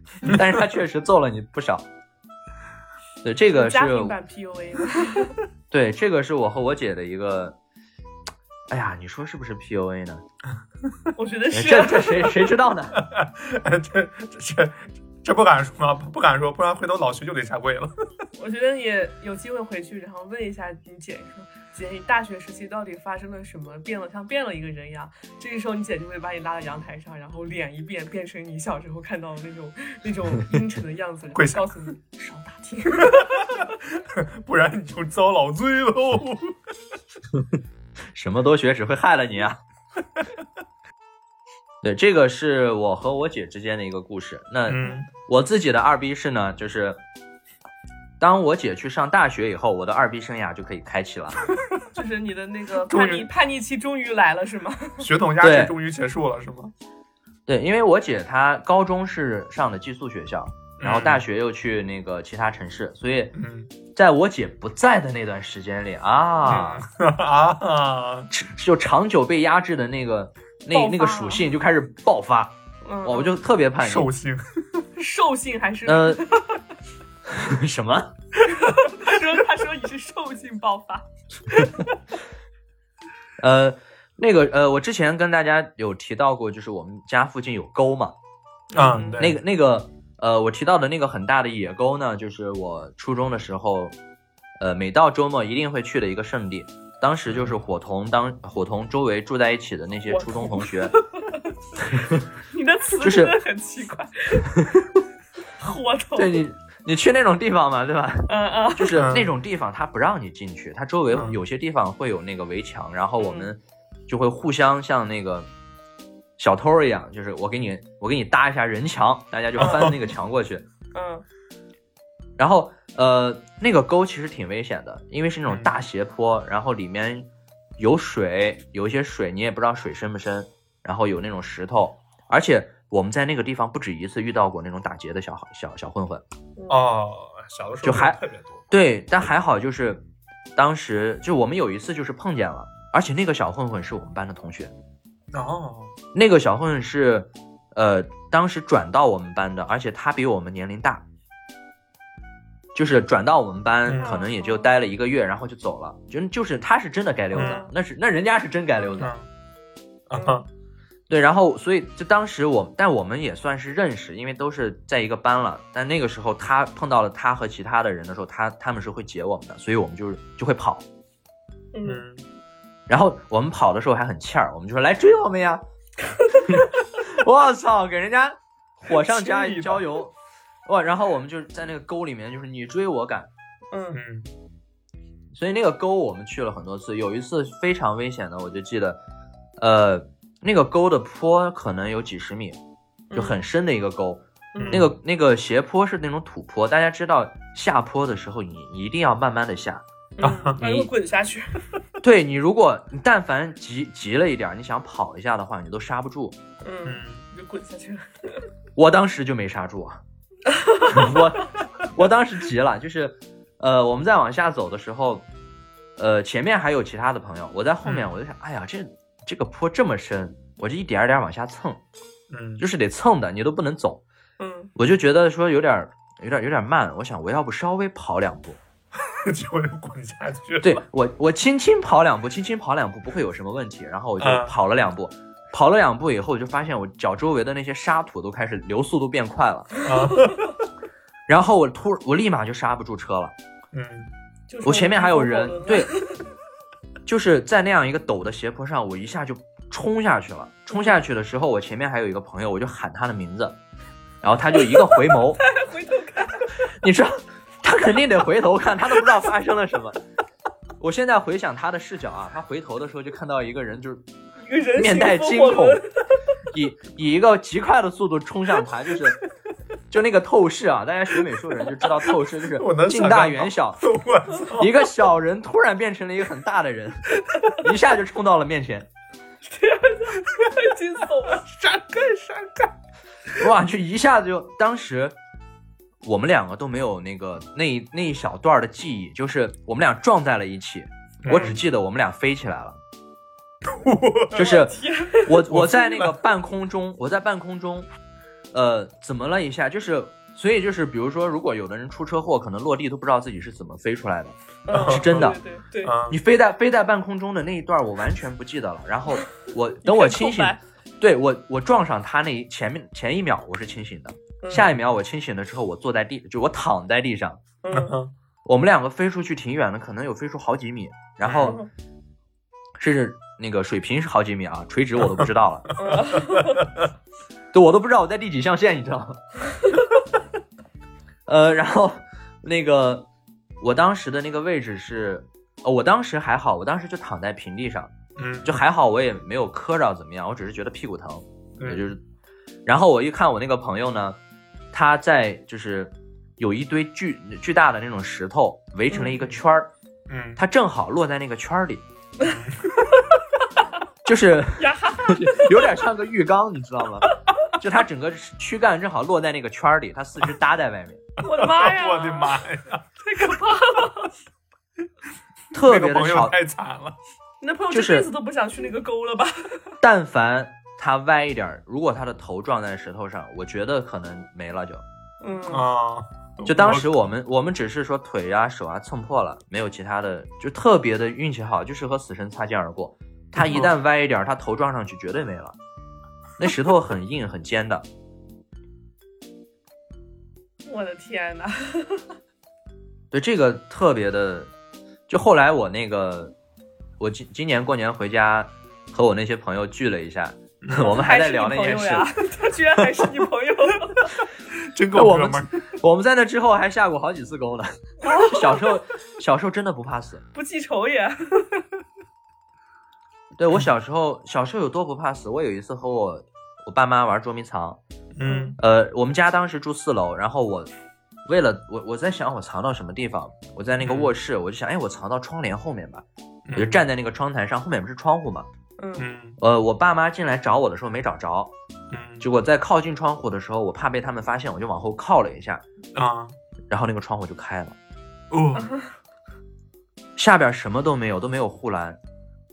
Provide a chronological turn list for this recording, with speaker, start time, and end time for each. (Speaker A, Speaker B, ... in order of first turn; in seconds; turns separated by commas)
Speaker A: 0.2-1.9, Speaker A: 3.2-4.2, Speaker B: 3.5-5.3, Speaker A: 5.7-7.6, Speaker A: 8.7-10.2, Speaker B: 11.2-12.4, Speaker A: 11.5-13.0, Speaker C: 12.9-17.9, Speaker B: 18.4-33.6, Speaker C: 31.4-31.7, Speaker C: 33.0-36.6, Speaker A: 38.1-39.6, Speaker A: 41.8-47.0, Speaker C: 44.7-45.1, Speaker A: 48.2-51.5, Speaker B: 51.9-55.1, Speaker C: 52.9-53.3, Speaker C: 55.0-56.7, Speaker A: 55.4-55.8, Speaker A: 57.5-63.3, Speaker C: 60.8-61.2, Speaker C: 63.4-63.7, Speaker A: 63.9-66.8, Speaker C: 66.5-68.3, Speaker A: 68.3-74.1, Speaker B: 70.7-71.5, Speaker B: 72.8-73.3, Speaker C: 73.8-74.8, Speaker B: 75.0-76.6, Speaker A: 75.8-76.2, Speaker A: 77.2-78.1, Speaker B: 78.5-81.9, Speaker A: 83.4-88.2, Speaker C: 88.7-89.4, Speaker B: 88.8-89.3, Speaker A: 89.2-94.0, Speaker A: 94.6-101.0, Speaker C: 97.3-97.6, Speaker B: 100.1-101.5, Speaker A: 101.8-102.3, Speaker B: 102.5-104.7, Speaker A: 103.0-103.4, Speaker A: 104.6-104.9, Speaker B: 105.6-106.4, Speaker A: 106.2-115.5, Speaker B: 108.3-109.1, Speaker C: 108.9-109.3, Speaker C: 111.1-111.4, Speaker B: 113.2-113.5, Speaker A: 116.4-120.7, Speaker C: 119.6-120.0, Speaker B: 120.9-121.2, Speaker A: 122.4-136.2, Speaker B: 136.6-136.9, Speaker C: 136.7-138.7, Speaker A: 137.8-138.2, Speaker A: 138.7-140.0, Speaker A: 140.6-144.7, Speaker C: 145.3-145.9, Speaker A: 146.1-151.1, Speaker A: 152.8-159.1, Speaker C: 153.9-154.1, Speaker B: 154.0-154.7, Speaker B: 157.3-157.7, Speaker C: 157.3-157.6, Speaker C: 159.0-159.3, Speaker C: 160.1-160.5, Speaker B: 160.1-160.5, Speaker A: 161.1-170.8, Speaker B: 171.7-172.0, Speaker C: 171.8-172.2, Speaker A: 172.9-175.6, Speaker A: 176.3-180.1, Speaker B: 178.9-179.8, Speaker A: 180.7-183.3, Speaker B: 183.7-184.0, Speaker C: 183.9-184.3, Speaker A: 185.3-189.0, Speaker A: 189.6-192.6, Speaker B: 193.1-193.4, Speaker A: 193.2-199.8, Speaker B: 194.5-194.9, Speaker C: 194.6-194.9, Speaker B: 200.2-201.8, Speaker C: 200.2-200.6, Speaker A: 200.6-200.9, Speaker A: 202.0-206.4, Speaker B: 206.6-208.5, Speaker C: 206.8-207.2, Speaker A: 208.8-210.0, Speaker B: 210.5-211.2, Speaker A: 210.8-215.3, Speaker A: 216.0-221.8, Speaker C: 217.8-218.1, Speaker C: 222.3-222.6, Speaker A: 222.6-224.0, Speaker B: 224.4-224.7, Speaker A: 224.8-228.6, Speaker C: 229.1-230.8, Speaker A: 230.6-239.8, Speaker C: 234.2-234.6, Speaker C: 239.8-240.6, Speaker A: 241.3-243.3, Speaker C: 243.7-244.1, Speaker B: 244.5-246.2, Speaker A: 244.6-246.0, Speaker A: 247.1-253.6, Speaker A: 254.2-255.4, Speaker B: 254.5-256.7, Speaker A: 256.6-260.0, Speaker A: 260.8-264.0, Speaker B: 264.4-266.2, Speaker A: 264.8-265.8, Speaker A: 266.5-269.2, Speaker A: 269.9-273.8, Speaker C: 272.4-274.8, Speaker A: 274.5-278.9, Speaker B: 279.4-282.4, Speaker C: 281.3-282.5, Speaker A: 283.3-285.2, Speaker A: 286.0-292.8, Speaker C: 291.2-291.6, Speaker B: 291.3-291.6, Speaker C: 293.7-294.5, Speaker B: 294.3-295.4, Speaker A: 294.4-297.9, Speaker C: 295.4-296.1, Speaker A: 298.5-305.4, Speaker B: 304.7-306.0, Speaker C: 304.7-306.2, Speaker A: 306.1-317.4, Speaker B: 309.8-310.6, Speaker B: 314.4-314.7, Speaker B: 317.6-318.0, Speaker C: 317.7-318.1, Speaker A: 318.4-321.6, Speaker C: 321.2-321.6, Speaker B: 321.4-321.7, Speaker A: 322.8-325.7, Speaker B: 325.8-326.6, Speaker A: 327.5-329.2, Speaker A: 331.3-333.1, Speaker A: 333.6-337.9, Speaker C: 338.2-338.6, Speaker A: 338.4-342.0, Speaker C: 341.6-341.9, Speaker A: 342.7-344.2, Speaker A: 344.7-349.7, Speaker B: 348.9-349.2, Speaker C: 349.1-349.4, Speaker C: 350.1-350.4, Speaker A: 350.4-351.8, Speaker C: 352.2-352.9, Speaker B: 352.9-353.2, Speaker A: 354.0-361.1, Speaker B: 354.6-355.8, Speaker B: 361.2-362.4, Speaker C: 361.2-363.4, Speaker B: 363.0-364.1, Speaker A: 365.5-366.4, Speaker C: 365.5-367.0, Speaker B: 367.4-369.8, Speaker A: 367.7-368.1, Speaker A: 369.8-374.8, Speaker B: 375.2-375.7, Speaker C: 375.5-376.9, Speaker A: 376.5-385.6, Speaker C: 383.4-383.7, Speaker A: 386.4-387.9, Speaker B: 390.7-392.1, Speaker A: 393.1-394.5, Speaker A: 395.1-396.3, Speaker A: 397.0-402.1, Speaker C: 400.6-400.9, Speaker B: 400.7-404.1, Speaker C: 404.7-405.6, Speaker A: 404.9-410.2, Speaker B: 408.0-408.7, Speaker B: 410.3-411.7, Speaker A: 413.4-417.8, Speaker C: 418.1-418.6, Speaker B: 418.2-418.6, Speaker A: 418.6-420.7, Speaker A: 421.2-428.5, Speaker C: 423.8-424.1, Speaker C: 426.5-426.9, Speaker B: 428.8-429.1, Speaker C: 429.0-429.4, Speaker A: 429.4-431.5, Speaker C: 431.9-432.3, Speaker A: 432.2-435.6, Speaker C: 435.9-436.4, Speaker A: 436.7-437.8, Speaker C: 438.3-438.7, Speaker B: 438.6-438.9, Speaker A: 440.2-442.0